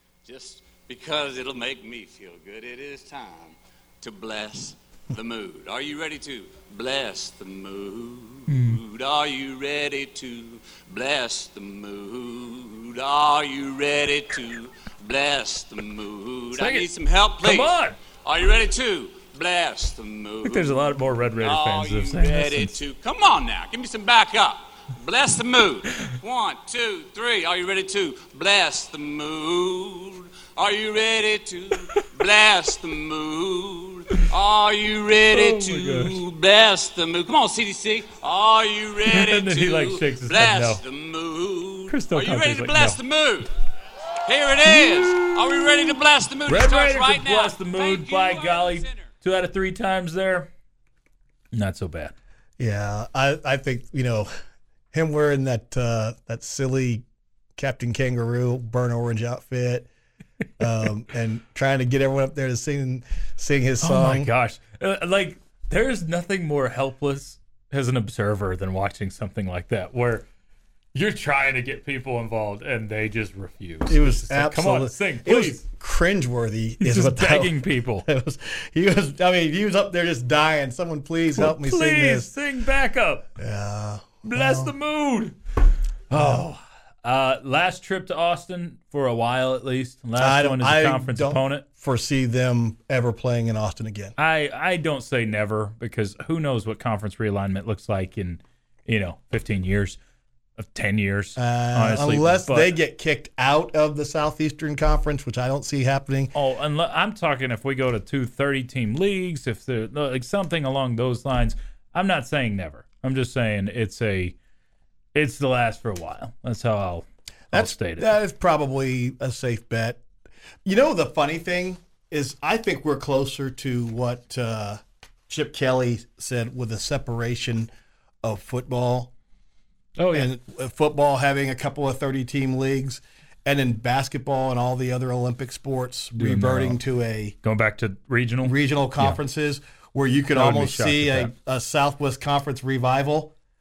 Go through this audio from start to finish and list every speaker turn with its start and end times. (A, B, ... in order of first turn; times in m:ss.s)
0:00.2-0:43.5 A
0:08.5-0:08.8 B
0:16.5-0:16.9 B
0:17.4-0:18.0 B
0:20.4-0:22.8 B
0:35.3-0:36.2 B
0:39.1-0:40.8 B
0:41.9-0:43.0 B
0:44.2-0:49.1 A
0:46.5-0:50.5 B
0:51.5-0:52.1 B
0:52.6-0:54.3 C
0:54.9-0:57.0 C
0:57.6-0:59.9 C
1:00.6-1:04.3 C
1:03.8-1:10.3 B
1:10.9-1:15.6 B
1:13.9-1:22.3 C
1:16.8-1:18.1 B
1:21.4-1:23.3 B
1:23.4-1:24.7 C
1:24.2-1:25.4 B
1:26.1-1:31.6 B
1:26.1-1:26.5 C
1:30.2-1:34.2 C
1:34.2-1:40.0 B
1:40.6-1:42.8 B
1:41.4-1:46.3 C
1:46.3-1:54.4 B
1:55.2-1:58.1 B
1:57.5-2:00.0 C
2:00.6-2:07.7 C
2:08.2-2:09.1 C
2:10.0-2:10.3 B
2:10.1-2:17.4 C
2:16.2-2:16.8 B
2:17.4-2:19.2 B
2:18.4-2:23.3 C
2:20.3-2:21.3 B